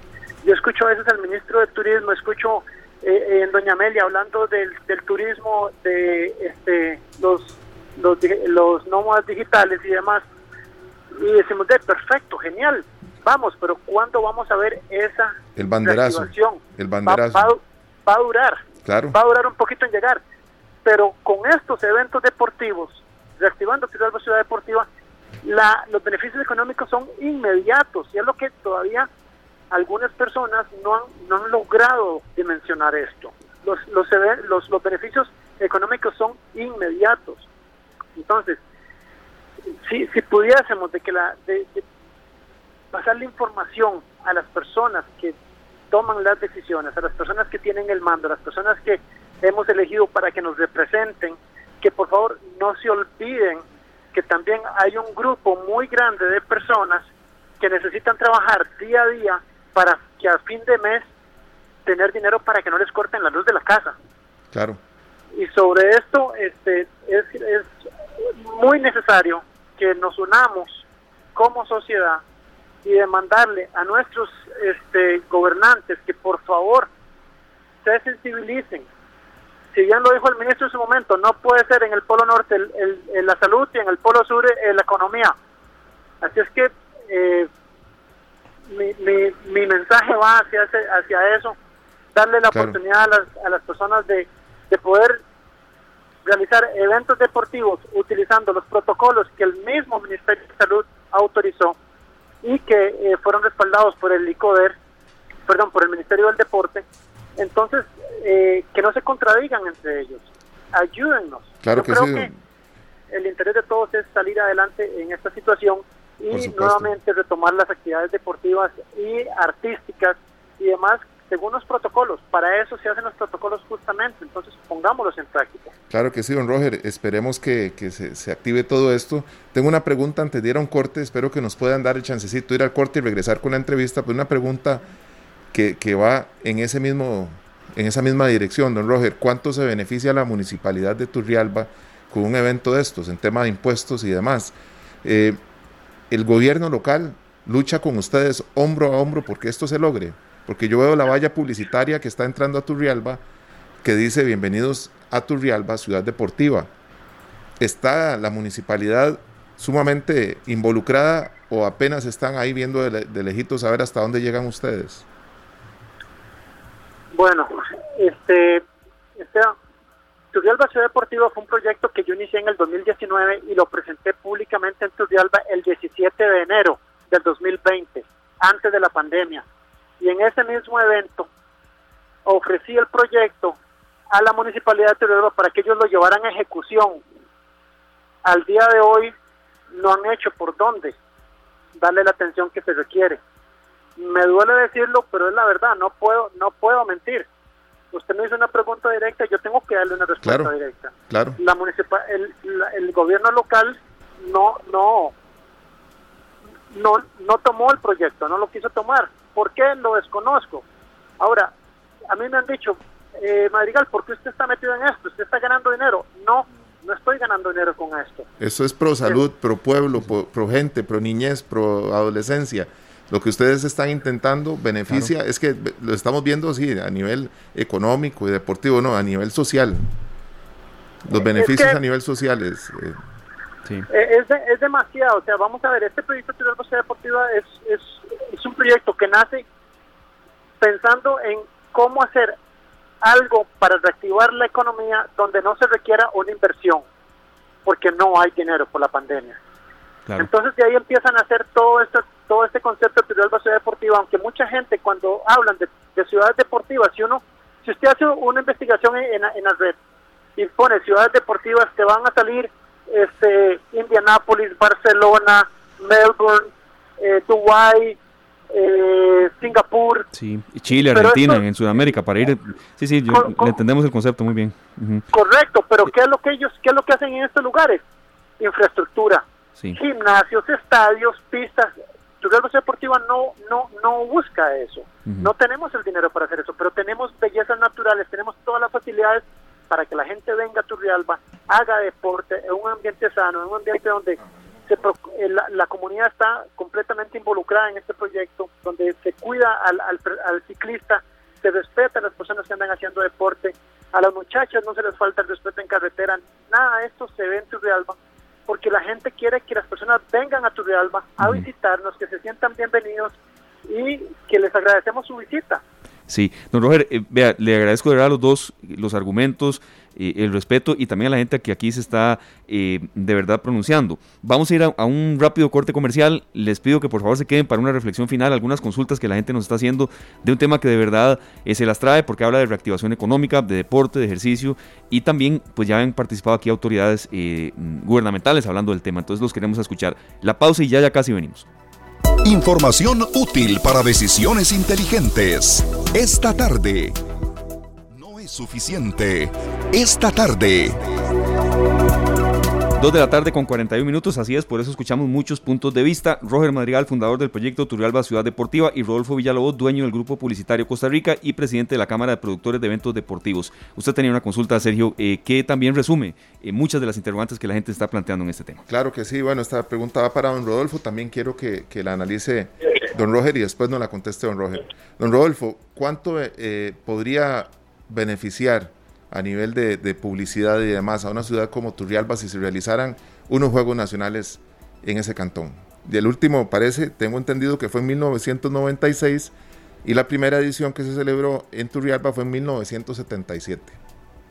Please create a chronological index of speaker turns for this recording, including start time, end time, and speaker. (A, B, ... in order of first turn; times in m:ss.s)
0:00.4-0:10.2 A
0:11.1-0:18.6 A
0:15.6-0:17.5 B
0:18.8-0:19.2 B
0:19.1-0:20.2 A
0:20.8-0:24.8 A
0:25.4-0:29.1 A
0:29.7-0:37.5 A
0:38.2-0:38.6 A
0:39.8-0:41.8 A
0:42.9-0:45.3 A
0:45.9-0:53.6 A
0:54.1-0:57.1 A
0:57.6-1:01.1 A
1:01.8-1:04.0 A
1:04.5-1:04.8 B
1:05.3-1:07.7 A
1:08.4-1:12.2 A
1:12.8-1:16.9 A
1:17.8-1:18.8 A
1:19.7-1:25.3 A
1:26.2-1:27.5 A
1:28.7-1:31.6 A
1:32.1-1:35.2 A
1:32.5-1:32.8 B
1:36.2-1:41.8 A
1:42.4-1:44.7 A
1:45.5-1:46.8 A
1:47.4-1:52.3 A
1:51.6-1:52.3 B
1:53.1-2:05.7 A
1:56.3-1:56.9 B
2:05.9-2:14.8 B
2:15.5-2:25.4 B
2:26.1-2:33.2 B
2:33.8-2:36.7 B
2:37.6-2:45.0 B
2:47.1-2:48.6 A
2:49.2-2:49.5 A
2:50.3-2:59.4 A
3:00.0-3:01.3 A
3:02.2-3:03.6 A
3:04.1-3:07.0 A
3:08.2-3:09.1 A
3:09.7-3:11.0 A
3:11.7-3:13.2 A
3:14.0-3:17.2 A
3:17.9-3:25.1 A
3:20.2-3:20.5 B
3:21.1-3:21.4 B
3:26.7-3:30.6 A
3:31.2-3:31.5 A
3:32.1-3:38.3 A
3:38.4-3:49.8 B
3:51.0-3:53.0 B
3:51.3-3:51.8 A
3:53.9-3:59.4 A
4:00.6-4:02.3 A
4:03.0-4:06.8 A
4:07.6-4:09.4 A
4:10.2-4:19.8 A
4:20.4-4:28.0 A
4:28.5-4:30.1 A
4:30.1-4:35.0 C
4:30.9-4:31.4 A
4:33.1-4:33.6 A
4:35.1-4:37.8 A
4:38.4-5:08.0 A
5:08.5-5:13.1 A
5:13.7-5:15.6 A
5:16.1-5:41.5 C
5:42.2-5:46.9 D
5:47.9-5:50.8 D
5:52.8-6:08.6 C
6:08.7-6:29.3 B
6:29.8-6:33.8 B